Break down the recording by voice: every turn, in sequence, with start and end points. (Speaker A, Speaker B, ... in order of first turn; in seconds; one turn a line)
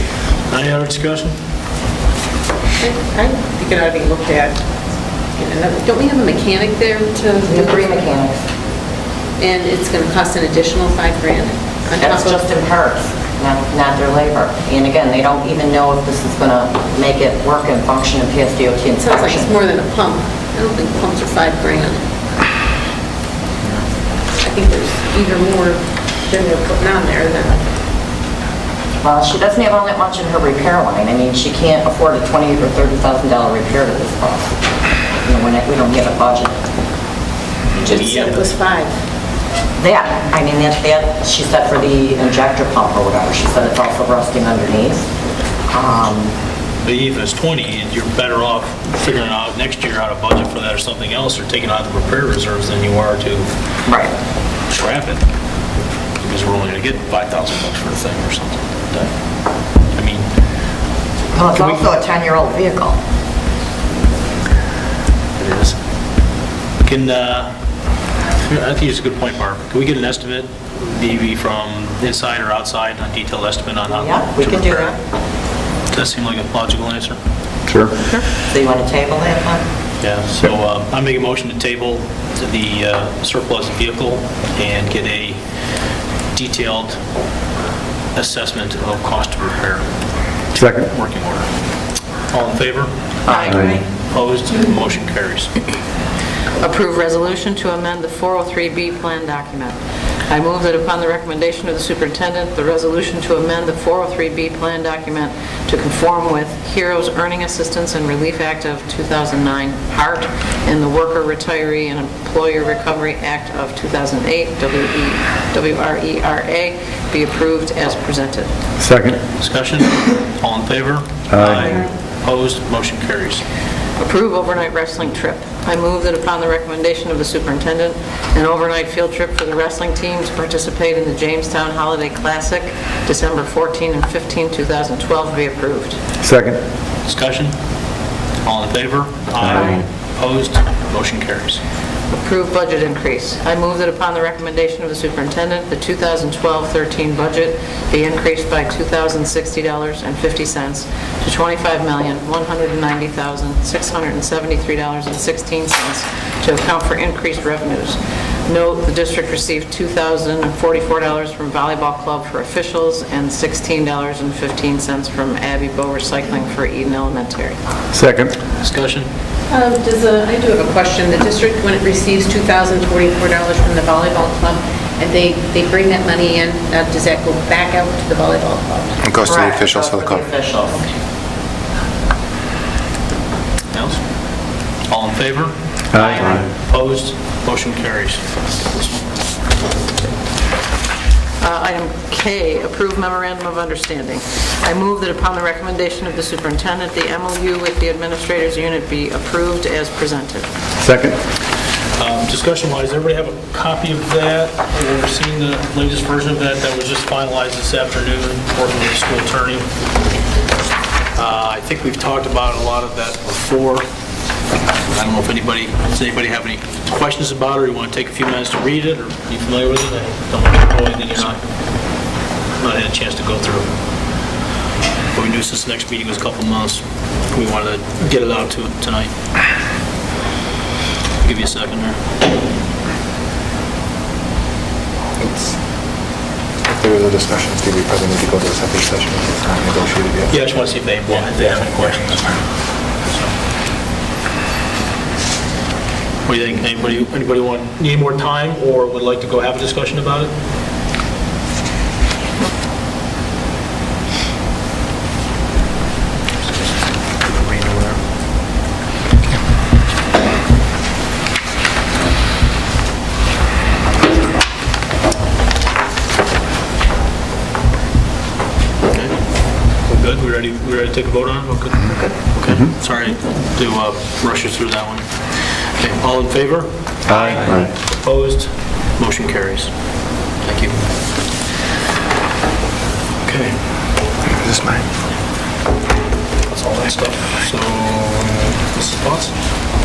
Speaker A: 0.5-1.3
Speaker B: 2.8-4.6
Speaker B: 5.4-8.1
Speaker C: 7.4-8.4
Speaker B: 9.4-12.4
Speaker C: 12.0-19.5
Speaker B: 19.0-22.0
Speaker B: 24.4-27.7
Speaker C: 29.0-34.5
Speaker C: 35.2-36.6
Speaker B: 37.7-39.0
Speaker A: 37.8-38.5
Speaker C: 39.8-45.1
Speaker C: 45.7-46.4
Speaker A: 46.8-53.5
Speaker C: 53.9-54.1
Speaker A: 54.7-55.2
Speaker A: 56.2-59.1
Speaker A: 59.9-60.3
Speaker C: 61.3-63.0
Speaker A: 61.5-61.8
Speaker A: 65.4-65.8
Speaker A: 66.8-67.5
Speaker A: 68.4-75.0
Speaker C: 73.9-75.0
Speaker A: 75.9-77.2
Speaker D: 77.7-77.9
Speaker C: 78.5-79.7
Speaker A: 80.0-85.4
Speaker A: 86.3-87.0
Speaker A: 88.1-89.8
Speaker A: 90.5-91.5
Speaker D: 90.6-90.9
Speaker A: 92.3-92.9
Speaker C: 93.3-93.8
Speaker E: 93.3-93.8
Speaker D: 93.5-93.8
Speaker A: 94.0-95.5
Speaker E: 96.6-99.8
Speaker E: 100.3-118.5
Speaker D: 118.8-119.2
Speaker A: 119.4-123.4
Speaker D: 121.3-121.8
Speaker E: 124.0-136.0
Speaker D: 136.2-136.6
Speaker A: 137.1-137.5
Speaker A: 138.4-141.6
Speaker D: 139.4-139.8
Speaker E: 142.1-167.6
Speaker D: 167.9-168.3
Speaker A: 168.6-169.1
Speaker B: 169.5-179.0
Speaker F: 179.0-180.2
Speaker C: 179.2-180.8
Speaker A: 183.7-184.1
Speaker A: 184.9-189.1
Speaker D: 185.9-186.5
Speaker E: 191.4-200.5
Speaker D: 200.8-201.2
Speaker A: 202.0-209.7
Speaker A: 211.2-213.8
Speaker A: 214.9-221.4
Speaker A: 222.6-223.7
Speaker A: 225.1-229.1
Speaker A: 231.2-232.0
Speaker F: 235.2-235.6
Speaker F: 236.7-240.4
Speaker A: 240.3-242.3
Speaker F: 241.2-242.4
Speaker A: 243.1-243.3
Speaker A: 246.3-250.3
Speaker A: 256.4-258.0
Speaker A: 268.9-269.2
Speaker A: 269.7-279.7
Speaker D: 277.1-277.7
Speaker A: 280.4-280.8
Speaker A: 283.2-283.6
Speaker F: 284.4-284.8
Speaker A: 286.5-289.4